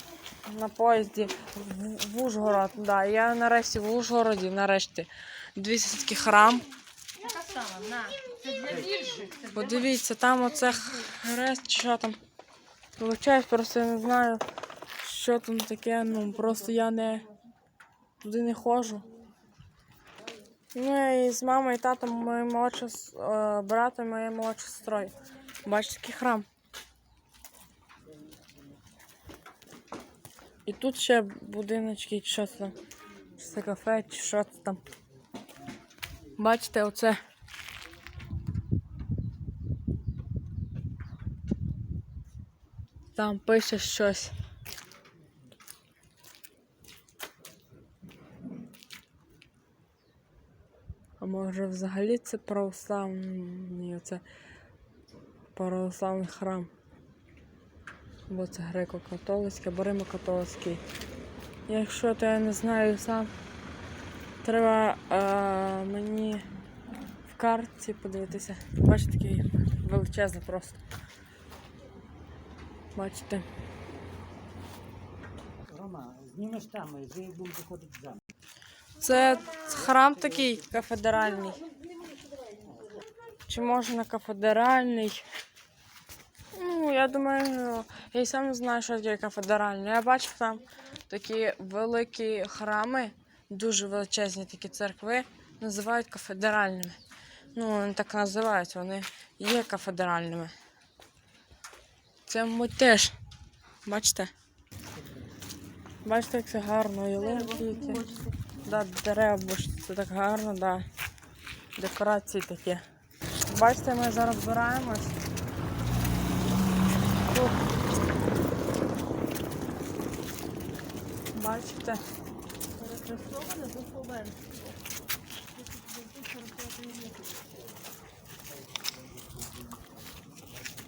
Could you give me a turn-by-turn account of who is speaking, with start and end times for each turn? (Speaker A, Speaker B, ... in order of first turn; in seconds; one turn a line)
Speaker A: 0.5-6.7
Speaker B: 7.2-9.7
Speaker A: 9.5-12.2
Speaker A: 13.0-14.4
Speaker A: 15.0-17.3
Speaker A: 18.2-19.1
Speaker A: 20.7-26.5
Speaker A: 30.7-32.8
Speaker A: 33.4-34.8
Speaker A: 36.4-37.2
Speaker A: 43.1-44.3
Speaker A: 51.2-54.2
Speaker A: 55.5-56.7
Speaker A: 58.3-60.8
Speaker A: 61.7-63.3
Speaker A: 64.4-66.5
Speaker A: 67.3-70.8
Speaker A: 73.0-73.5
Speaker C: 75.7-78.2
Speaker A: 79.0-81.6
Speaker A: 83.5-85.2
Speaker A: 86.5-97.0
Speaker A: 97.5-100.5
Speaker A: 102.3-103.2
Speaker A: 103.8-104.3
Speaker A: 106.0-108.0
Speaker B: 107.2-108.5
Speaker A: 108.6-110.9
Speaker A: 111.8-112.8
Speaker A: 113.5-115.2
Speaker A: 117.2-117.6
Speaker A: 121.3-122.0
Speaker B: 122.8-124.8
Speaker B: 125.5-127.2